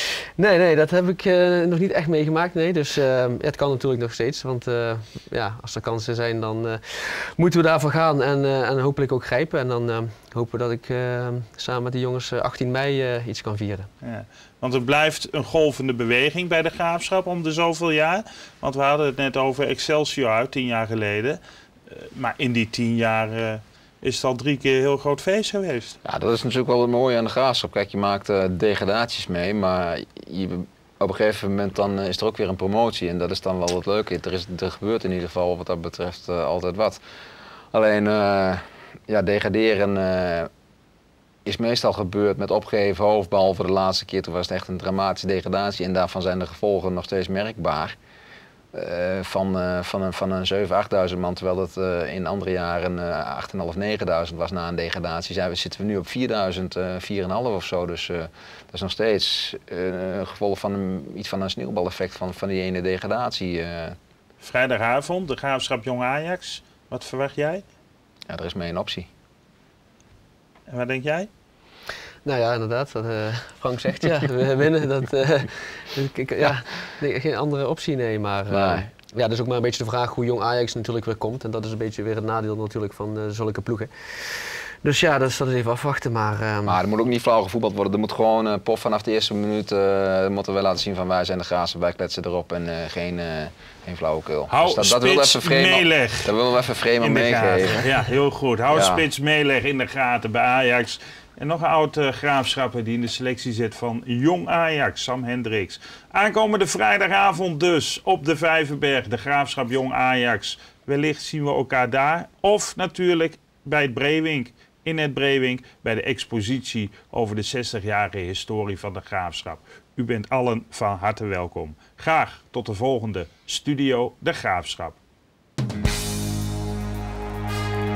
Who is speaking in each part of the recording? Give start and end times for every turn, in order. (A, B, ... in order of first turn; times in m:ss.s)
0:00.4-0:13.9 A
0:14.0-0:26.0 B
0:26.0-0:37.0 C
0:37.7-0:40.5 C
0:41.4-0:48.0 C
0:48.7-1:04.0 C
1:04.4-1:07.6 B
1:08.3-1:09.1 C
1:10.7-1:11.3 B
1:12.2-1:26.8 A
1:18.5-1:18.9 C
1:26.6-1:37.9 C
1:34.5-1:36.3 B
1:37.0-2:05.0 B
1:38.7-1:39.0 C